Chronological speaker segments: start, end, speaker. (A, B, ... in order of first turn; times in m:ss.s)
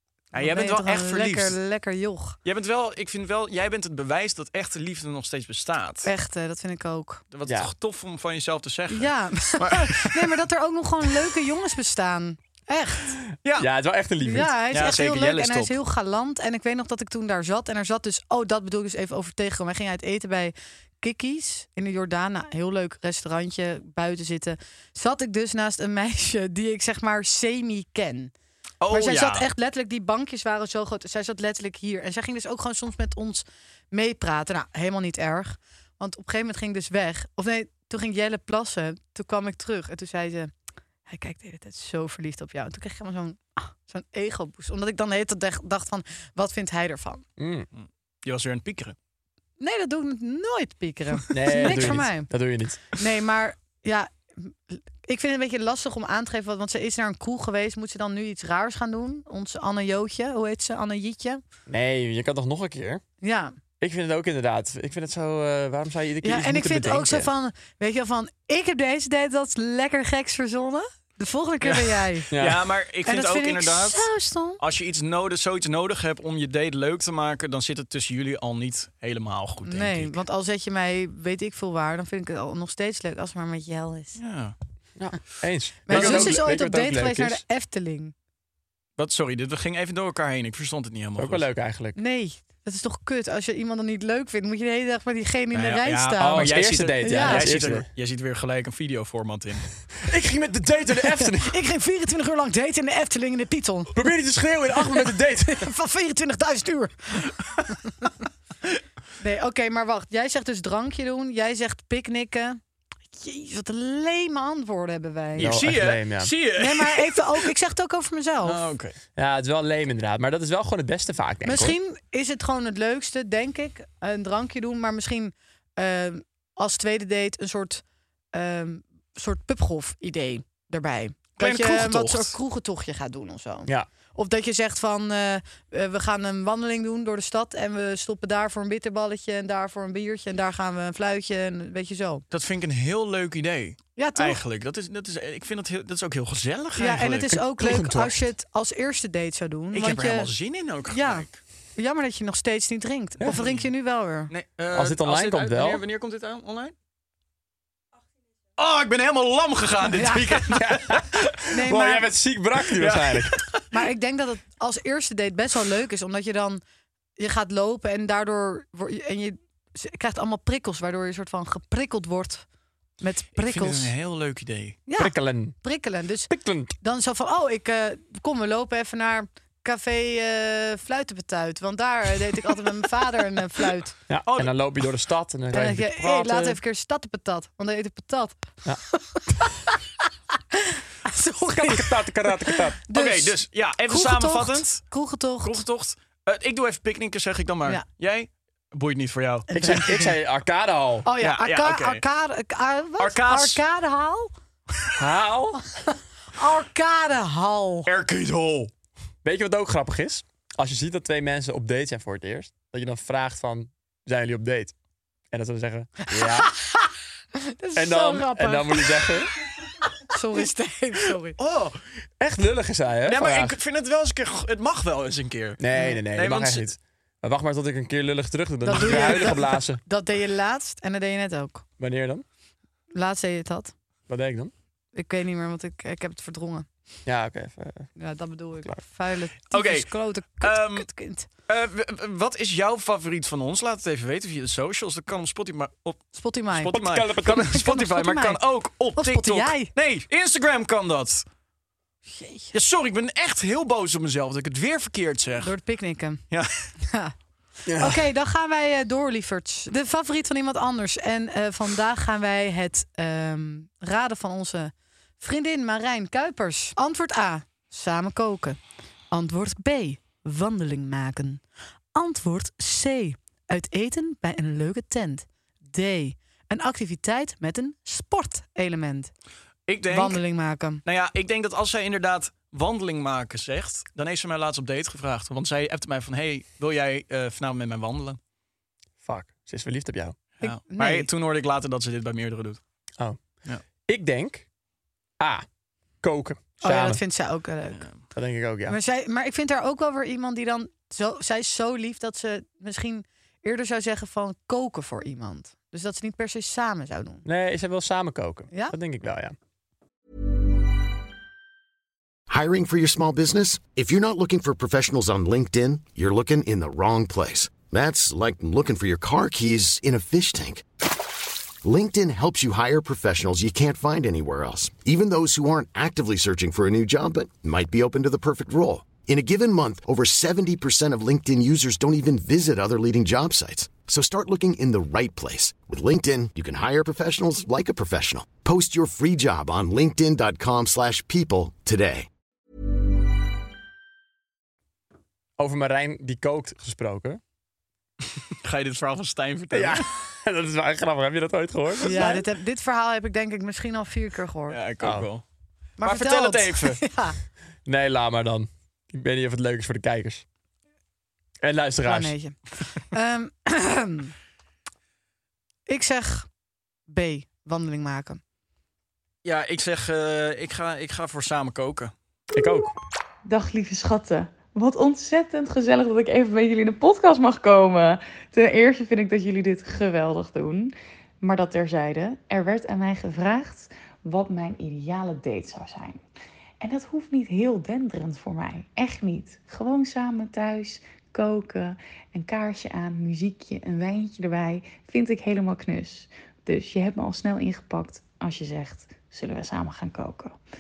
0:00.3-0:01.6 A
0:00.3-0:02.4 B
0:02.4-0:06.1 A
0:06.0-0:07.2 B
0:07.3-0:10.3 A
0:08.9-0:13.2 B
0:13.6-0:14.5 C
0:14.2-0:28.3 B
0:14.7-0:15.8 A
0:28.8-0:29.5 A
0:28.9-0:40.5 B
0:41.1-0:47.2 B
0:47.4-0:47.7 C
0:47.7-0:49.0 A
0:49.6-0:52.3 B
0:51.3-0:52.8 C
0:51.6-0:52.0 A
0:52.9-1:01.4 B
1:01.7-1:03.0 C
1:03.2-1:03.6 B
1:03.8-1:07.3 C
1:06.2-1:12.3 B
1:11.6-1:14.1 A
1:12.3-1:12.7 C
1:13.0-1:14.6 B
1:14.6-1:20.2 A
1:19.6-1:24.2 B
1:24.2-1:24.6 A
1:25.0-1:27.4 C
1:25.8-1:28.1 B
1:25.9-1:26.4 A
1:29.0-1:31.5 A
1:31.2-1:32.0 C
1:32.0-1:37.5 B
1:35.5-1:39.8 A
1:36.2-1:37.9 C
1:40.0-1:41.6 C
1:41.2-1:44.1 B
1:44.0-1:45.7 C
1:44.8-1:48.1 B
1:49.2-1:52.6 B
1:53.1-1:55.7 B
1:55.4-1:56.3 C
1:55.4-1:57.5 A
1:56.6-1:58.6 B
1:58.4-1:59.0 A
1:59.2-2:01.8 C
2:01.4-2:22.2 B
2:11.4-2:12.4 A
2:22.3-2:27.4 A
2:24.0-2:24.4 B
2:26.8-2:30.3 B
2:27.3-2:28.2 C
2:29.7-2:31.4 A
2:30.9-2:34.3 B
2:33.2-2:33.7 A
2:34.3-2:36.7 A
2:34.7-2:35.8 C
2:38.6-2:41.1 A
2:40.0-2:40.6 B
2:40.6-2:43.4 C
2:41.5-2:42.1 B
2:42.7-2:43.7 A
2:43.7-2:46.6 B
2:47.2-2:52.4 B
2:53.0-2:53.9 B
2:53.4-2:54.8 A
2:54.9-3:03.9 B
2:55.0-2:55.6 C
2:56.3-2:56.7 C
3:04.1-3:06.6 C
3:04.3-3:04.5 A
3:05.5-3:09.7 B
3:10.5-3:15.6 B
3:11.4-3:12.8 C
3:12.9-3:14.9 A
3:15.4-3:19.5 A
3:19.5-3:20.2 B
3:19.6-3:21.1 C
3:21.0-3:24.3 B
3:21.2-3:22.0 A
3:23.0-3:23.6 A
3:25.0-3:25.6 C
3:26.3-3:27.9 B
3:27.9-3:28.7 A
3:29.2-3:34.7 C
3:35.3-3:36.5 C
3:36.1-3:36.9 B
3:37.5-3:39.1 B
3:37.8-3:39.3 C
3:40.1-3:41.4 B
3:41.4-3:41.8 A
3:42.2-3:43.6 C
3:43.0-3:46.7 A
3:45.6-3:49.8 C
3:48.7-3:51.6 B
3:51.8-3:52.2 C
3:52.9-3:53.7 B
3:54.1-3:54.5 C
3:55.0-3:56.7 B
3:57.1-3:57.9 C
3:58.0-4:01.3 B
3:59.5-4:00.9 A
4:01.5-4:11.2 A
4:06.1-4:06.8 B
4:06.7-4:07.6 C
4:07.3-4:08.4 B
4:09.0-4:09.7 B
4:12.1-4:12.5 B
4:12.5-4:15.6 A
4:15.4-4:16.2 B
4:16.3-4:16.7 A
4:16.8-4:17.1 B
4:17.7-4:18.0 C
4:17.8-4:28.6 B
4:29.1-4:31.4 B
4:31.9-4:39.1 B
4:39.7-4:40.2 A
4:39.9-4:40.8 B
4:40.8-4:48.2 A
4:49.0-4:50.2 C
4:50.4-4:52.6 A
4:50.4-4:51.1 B
4:53.9-4:54.5 C
4:55.2-4:55.4 C
4:56.0-4:57.0 C
4:56.6-4:57.9 B
4:57.7-4:58.0 A
4:58.1-4:58.8 C
4:58.7-5:07.2 B
5:07.2-5:09.4 C
5:08.5-5:08.8 B
5:12.3-5:20.6 D
5:21.6-5:42.1 D
5:45.4-5:47.2 C
5:48.4-5:49.9 A
5:49.5-5:52.2 C
5:51.9-5:54.6 B
5:51.9-5:52.2 A
5:54.5-5:55.2 A
5:54.8-5:55.1 C
5:55.8-5:57.2 B
5:55.8-5:56.8 A
5:57.7-6:00.2 C
6:01.4-6:02.2 C
6:01.8-6:04.1 B
6:05.7-6:06.3 B
6:06.9-6:08.2 B
6:09.2-6:11.9 A
6:12.3-6:12.7 C
6:13.2-6:26.0 E
6:26.6-6:40.4 E